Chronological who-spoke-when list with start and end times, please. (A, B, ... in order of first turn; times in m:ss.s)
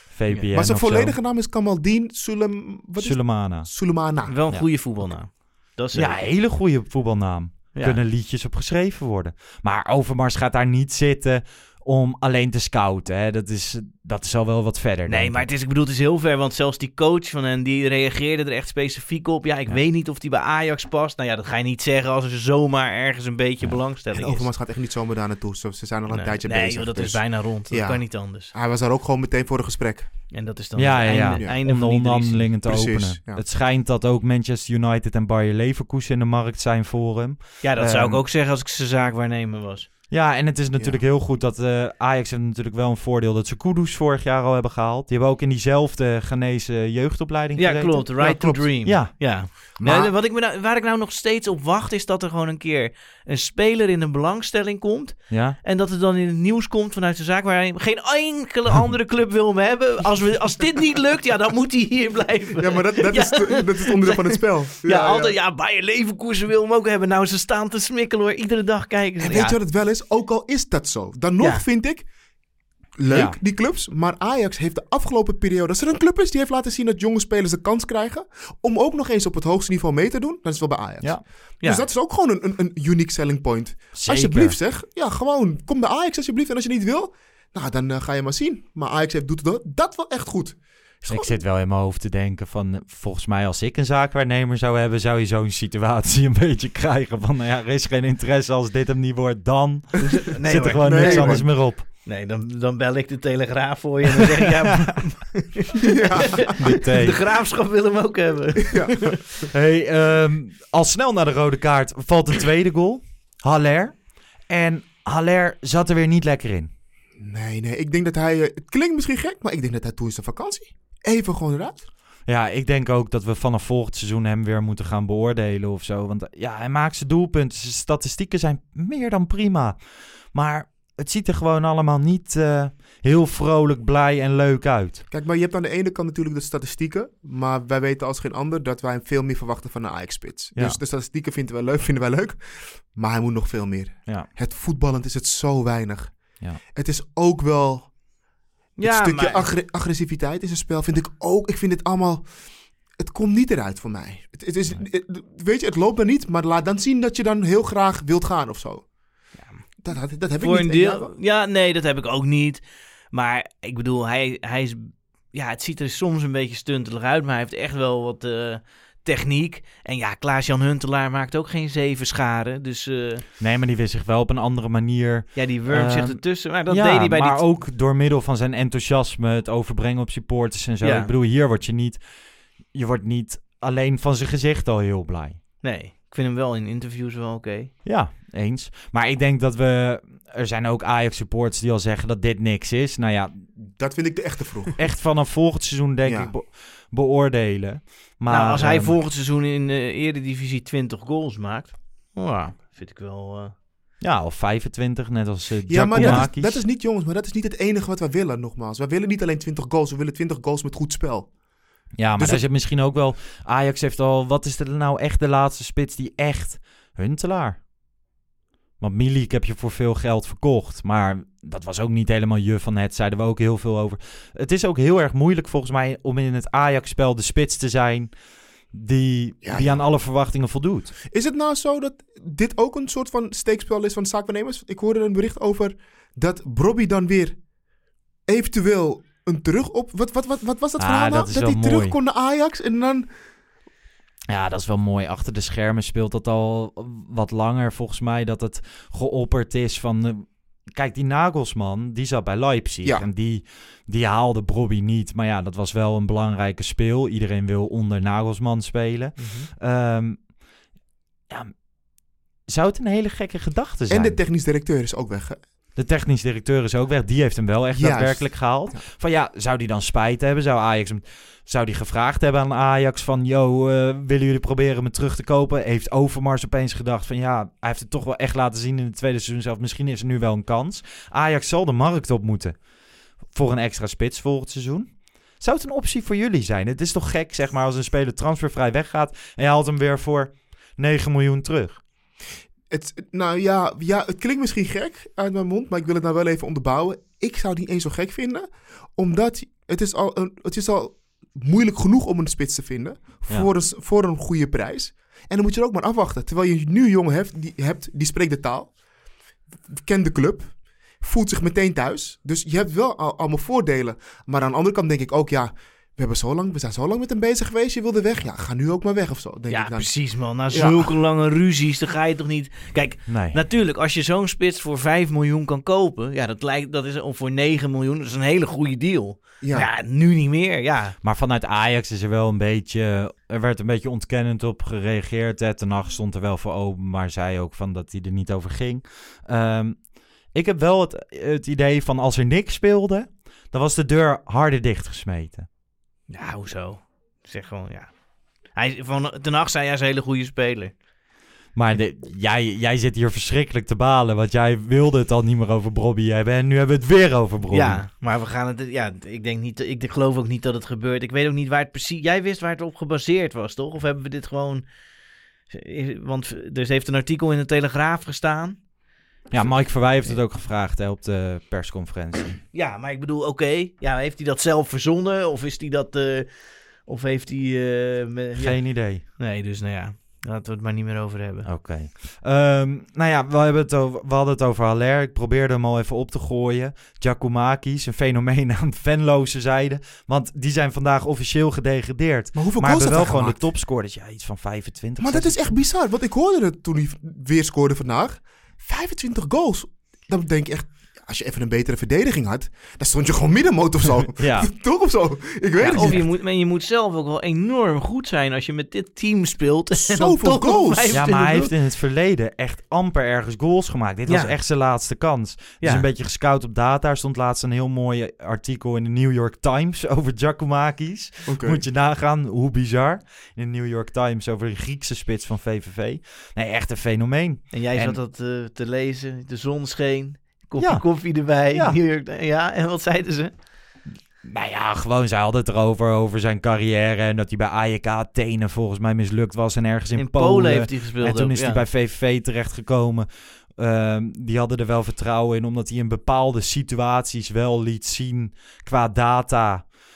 0:00.1-0:01.2 A
0:00.4-0:04.4 B
0:03.0-0:03.8 A
0:04.3-0:06.2 C
0:05.9-0:15.5 A
0:15.1-0:24.5 C
0:24.1-0:30.1 B
0:26.1-0:28.5 C
0:30.3-0:32.5 C
0:30.8-0:38.2 A
0:31.0-0:31.6 B
0:32.6-0:33.4 B
0:37.6-0:39.9 C
0:40.1-0:50.1 A
0:40.8-0:41.0 B
0:47.6-1:09.6 C
0:48.2-0:48.7 B
0:49.8-0:50.1 B
0:55.3-0:55.6 A
1:02.6-1:05.4 B
1:09.2-1:12.1 B
1:11.4-1:11.6 C
1:13.0-1:31.4 B
1:13.1-1:13.4 A
1:23.9-1:24.6 A
1:31.1-1:41.9 A
1:40.0-1:49.2 C
1:40.8-1:41.5 B
1:44.7-1:45.0 A
1:45.9-1:46.6 B
1:46.6-1:47.2 A
1:48.7-1:49.0 B
1:49.5-1:56.7 A
1:57.2-2:01.9 B
2:02.3-2:09.8 A
2:10.3-2:15.0 A
2:15.1-2:28.0 B
2:28.8-2:29.5 C
2:28.8-2:32.3 B
2:33.0-2:38.9 B
2:39.4-2:39.7 C
2:39.8-2:41.1 B
2:40.4-2:53.2 C
2:53.4-3:02.0 A
2:55.4-2:57.4 C
3:00.8-3:01.1 C
3:02.7-3:05.4 A
3:05.6-3:07.7 C
3:07.8-3:13.5 A
3:13.6-3:14.8 B
3:14.8-3:19.0 A
3:16.0-3:16.3 B
3:18.3-3:23.5 C
3:24.0-3:26.6 A
3:25.7-3:31.3 B
3:26.0-3:26.2 C
3:32.0-3:37.6 A
3:32.2-3:32.4 B
3:38.8-3:48.1 A
3:48.7-3:51.0 A
3:49.4-3:49.8 B
3:51.1-3:57.4 B
3:58.3-4:03.1 B
4:00.8-4:02.0 A
4:04.3-4:20.3 A
4:19.2-4:19.5 B
4:21.3-4:21.6 A
4:22.5-4:24.2 A
4:23.9-4:25.4 B
4:25.8-4:42.6 A
4:27.7-4:28.8 B
4:43.3-4:51.8 A
4:52.7-5:08.8 B
5:09.7-5:20.9 B
5:19.5-5:31.0 C
5:23.1-5:23.4 A
5:29.4-5:29.7 B
5:31.0-5:45.5 A
5:46.1-5:50.8 C
5:51.6-5:57.8 A
5:57.5-6:04.7 C
6:05.5-6:08.6 C
6:09.3-6:12.4 A
6:09.3-6:10.1 B
6:12.5-6:21.5 C
6:18.4-6:19.0 A
6:21.4-6:35.5 A
6:32.4-6:33.4 B
6:35.0-6:46.0 B
6:44.2-6:44.5 A
6:45.6-6:51.1 C
6:45.6-6:46.1 A
6:49.8-6:51.5 B
6:50.9-7:08.0 A
6:54.1-6:54.4 C
7:01.3-7:01.6 B
7:07.5-7:13.3 C
7:10.6-7:11.8 A
7:14.2-7:29.7 A
7:20.0-7:21.6 C